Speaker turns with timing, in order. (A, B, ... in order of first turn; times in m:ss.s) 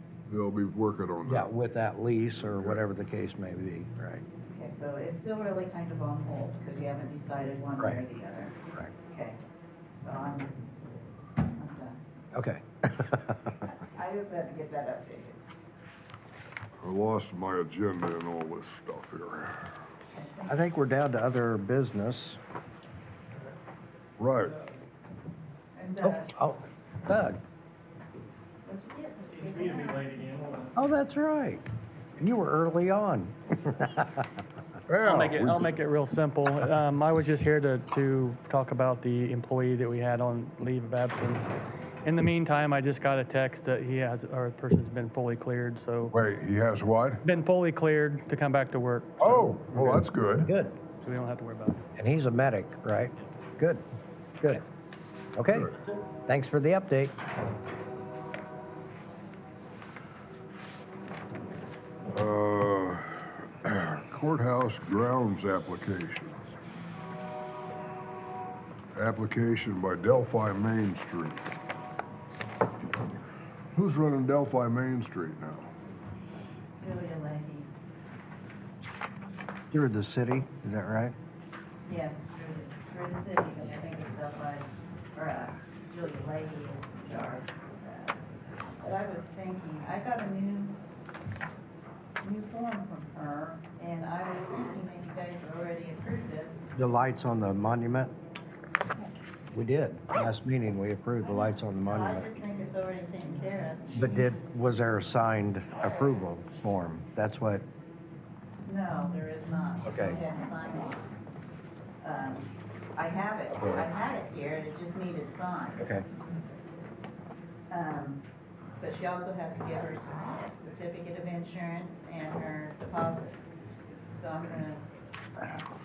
0:00.3-0:01.5 A
0:01.2-0:04.2 B
0:02.4-0:02.8 A
0:04.5-0:09.4 C
0:10.0-0:10.5 C
0:11.5-0:12.0 C
0:12.3-0:13.7 B
0:13.8-0:15.4 C
0:16.8-0:19.7 A
0:20.1-0:20.6 C
0:20.4-0:22.4 B
0:24.2-0:24.5 A
0:25.7-0:26.3 C
0:26.0-0:27.4 B
0:28.6-0:30.2 C
0:29.3-0:30.8 D
0:30.7-0:31.6 B
0:32.2-0:34.3 B
0:34.9-0:35.7 A
0:35.0-0:41.5 D
0:42.0-0:46.1 D
0:46.1-0:47.2 A
0:47.2-0:49.6 D
0:49.2-0:50.5 A
0:49.7-0:50.8 B
0:51.0-0:51.8 D
0:52.0-0:53.8 B
0:55.3-0:57.2 B
1:02.1-1:06.6 A
1:08.9-1:11.5 A
1:13.7-1:15.7 A
1:16.8-1:17.7 C
1:19.7-1:21.1 B
1:21.8-1:28.2 C
1:28.8-1:30.8 C
1:32.2-1:36.7 C
1:36.7-1:38.1 B
1:39.5-1:42.3 B
1:41.2-1:44.4 C
1:43.9-1:47.6 B
1:48.6-1:51.0 C
1:49.8-1:50.2 B
1:52.0-1:56.0 C
1:53.5-1:53.9 B
1:55.8-1:56.0 B
1:57.7-1:58.2 C
1:58.8-2:03.4 C
2:04.1-2:04.8 C